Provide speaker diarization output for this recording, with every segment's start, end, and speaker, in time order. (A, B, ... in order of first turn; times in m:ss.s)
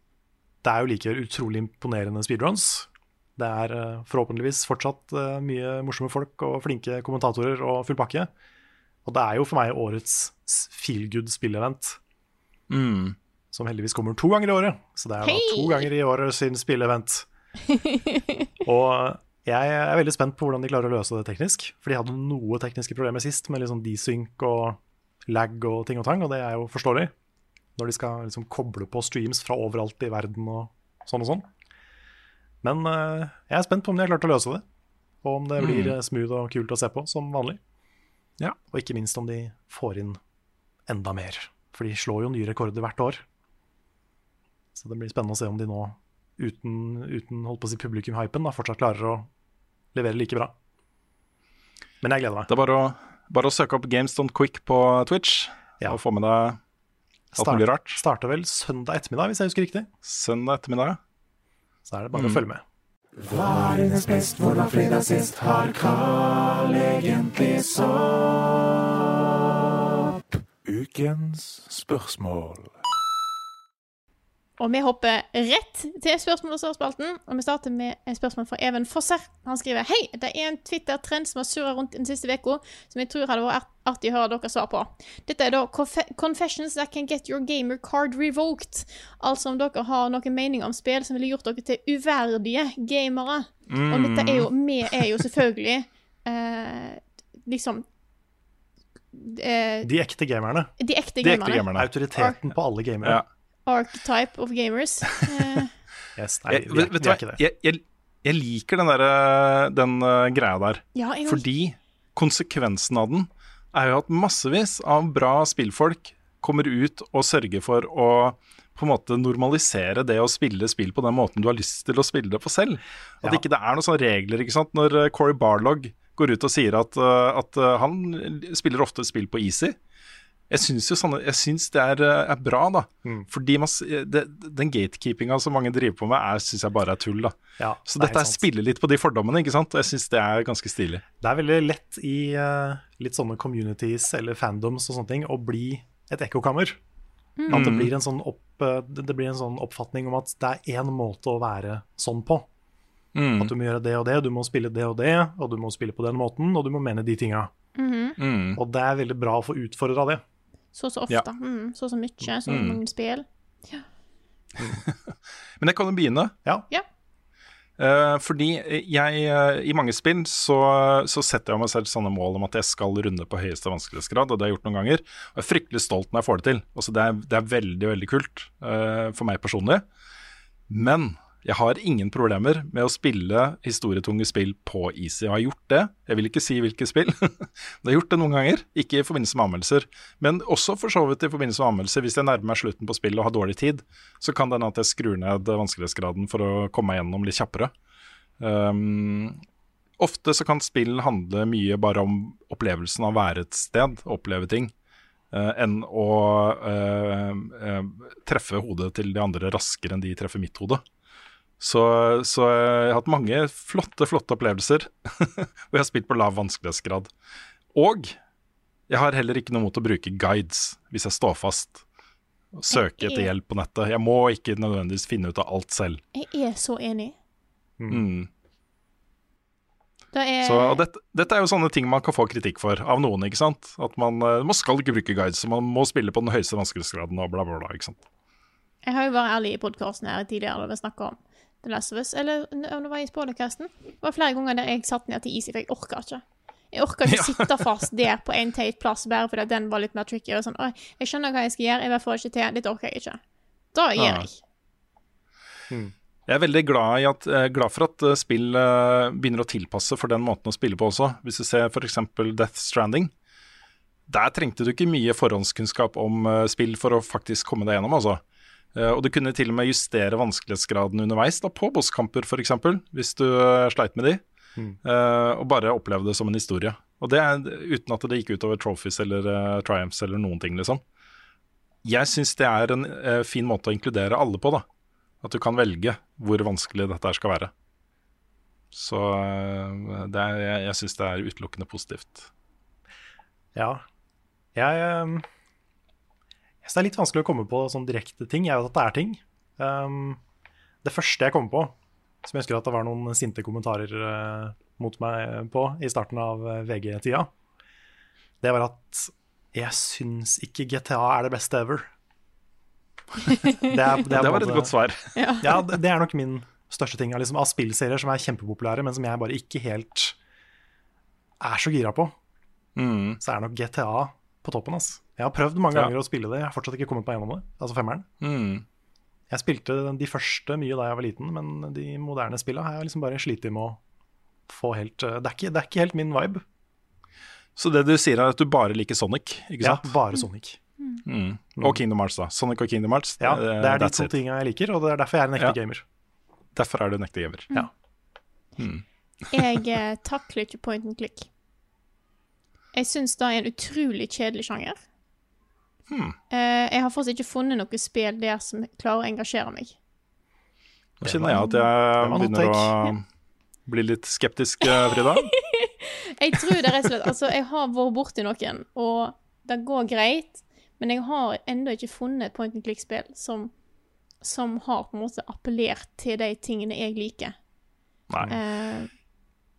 0:00.6-0:08.3 A
0:09.0-0:12.0 A
0:12.7-0:13.2 B
0:13.5-0:17.3 A
0:15.2-0:15.9 C
0:17.7-0:18.4 C
0:18.6-0:27.1 A
0:27.8-0:31.5 A
0:32.6-0:34.6 A
0:35.2-0:37.6 A
0:35.6-0:36.0 B
0:38.7-0:40.2 A
0:40.9-0:43.2 A
0:44.8-0:49.3 A
0:49.9-0:50.6 A
0:52.0-0:52.5 A
0:52.5-0:56.6 B
0:57.3-0:59.9 A
0:57.4-0:58.0 B
1:00.0-1:01.0 B
1:01.9-1:02.6 A
1:02.1-1:02.4 B
1:03.2-1:08.8 D
1:10.6-1:12.8 D
1:14.6-1:37.8 C
1:33.7-1:35.1 B
1:39.1-1:39.9 C
1:39.8-1:40.7 A
1:40.8-1:42.4 C
1:41.2-1:41.9 B
1:41.7-1:43.2 A
1:43.7-1:45.7 C
1:46.2-1:47.4 A
1:46.5-2:09.8 B
1:51.0-1:51.4 C
2:10.5-2:21.0 B
2:17.6-2:18.4 A
2:21.2-2:26.8 A
2:27.4-2:27.7 C
2:27.5-2:32.5 A
2:27.5-2:27.9 B
2:33.2-2:33.5 B
2:33.4-2:37.5 A
2:37.8-2:38.2 C
2:38.2-2:38.6 B
2:38.6-2:40.2 A
2:40.8-2:43.9 C
2:42.5-2:42.8 B
2:44.6-2:46.4 B
2:47.8-2:59.8 B
3:00.7-3:17.7 B
3:18.4-3:19.4 B
3:20.0-3:24.7 B
3:25.3-3:30.8 B
3:31.6-3:37.1 B
3:37.7-3:38.2 B
3:38.9-3:41.8 B
3:42.5-3:46.0 B
3:42.7-3:43.3 C
3:46.1-3:47.2 C
3:47.8-3:48.0 A
3:47.9-3:48.3 B
3:50.1-3:50.8 C
3:50.4-3:58.0 B
3:58.8-4:13.2 C
4:07.1-4:07.6 B
4:13.7-4:14.4 C
4:14.0-4:14.3 B
4:16.3-4:23.1 B
4:24.1-4:28.2 B
4:28.8-4:34.2 B
4:34.8-4:40.8 B
4:41.8-4:44.6 B
4:45.2-4:47.5 B
4:48.7-4:52.3 B
4:53.6-4:53.8 A
4:54.6-4:55.3 A
4:56.6-5:00.2 A
5:00.8-5:07.3 A
5:08.4-5:11.9 A
5:13.3-5:13.7 C
5:13.6-5:14.8 A
5:14.1-5:15.5 B
5:15.2-5:15.7 C
5:15.4-5:20.2 A
5:21.4-5:22.1 A
5:22.8-5:23.2 B
5:23.2-5:28.1 A
5:28.2-5:28.6 B
5:29.3-5:33.8 A
5:34.5-5:36.4 A
5:37.6-5:40.0 B
5:39.6-5:40.6 A
5:41.1-5:44.1 B
5:43.2-5:45.8 A
5:46.6-5:47.5 B
5:48.6-5:48.8 B
5:49.3-5:51.3 C
5:49.4-5:49.6 B
5:52.7-5:54.8 C
5:55.9-5:56.2 B
5:56.3-5:59.8 C
6:01.0-6:03.0 B
6:01.0-6:02.9 A
6:01.4-6:01.6 C
6:03.7-6:05.3 B
6:04.7-6:13.5 C
6:14.2-6:17.4 C
6:18.3-6:18.9 C